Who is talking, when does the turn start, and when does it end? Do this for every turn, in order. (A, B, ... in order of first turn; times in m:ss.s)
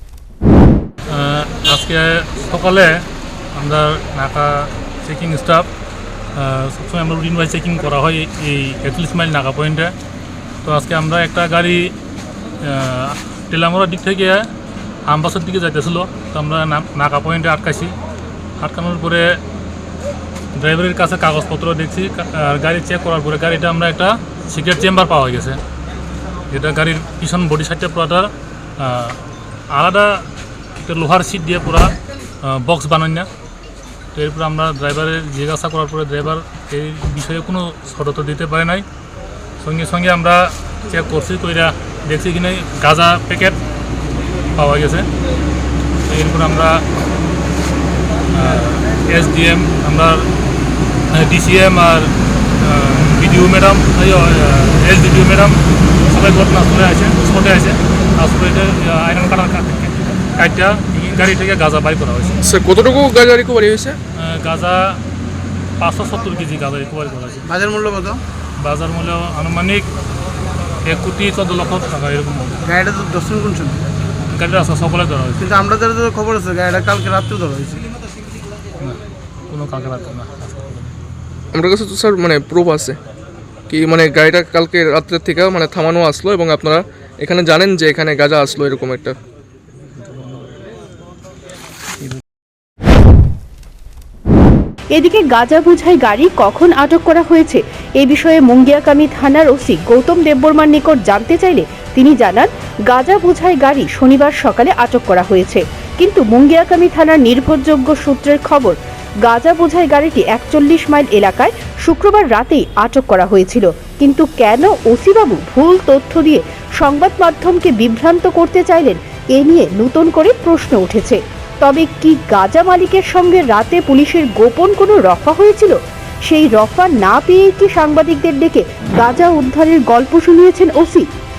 0:01.1-0:03.0 A
0:03.5-0:05.7 A
0:06.3-0:09.9 A
0:10.6-0:11.9 A
0:12.6-0:14.5 A
0:15.1-0:17.9 A
0:18.6-0:19.4 A
0:20.6-0:25.6 A
0:26.5-0:30.3 A
0:30.8-0:33.3 A
0:34.1-0:38.8 A
0:39.6-0:43.6 A
0:44.6-0:45.1 A
0:46.0-0:46.8 A
0:48.3-0:50.3 A
0:51.1-1:02.4 A
1:02.4-1:04.0 B
1:04.2-1:05.0 A
1:05.8-1:07.4 A
1:07.4-1:08.2 C
1:08.6-1:09.9 A
1:10.8-1:12.6 A
1:12.6-1:13.8 C
1:14.3-1:15.5 A
1:15.4-1:17.9 C
1:18.8-1:20.9 A
1:21.5-1:23.0 B
1:23.7-1:29.2 B
1:34.9-2:11.1 D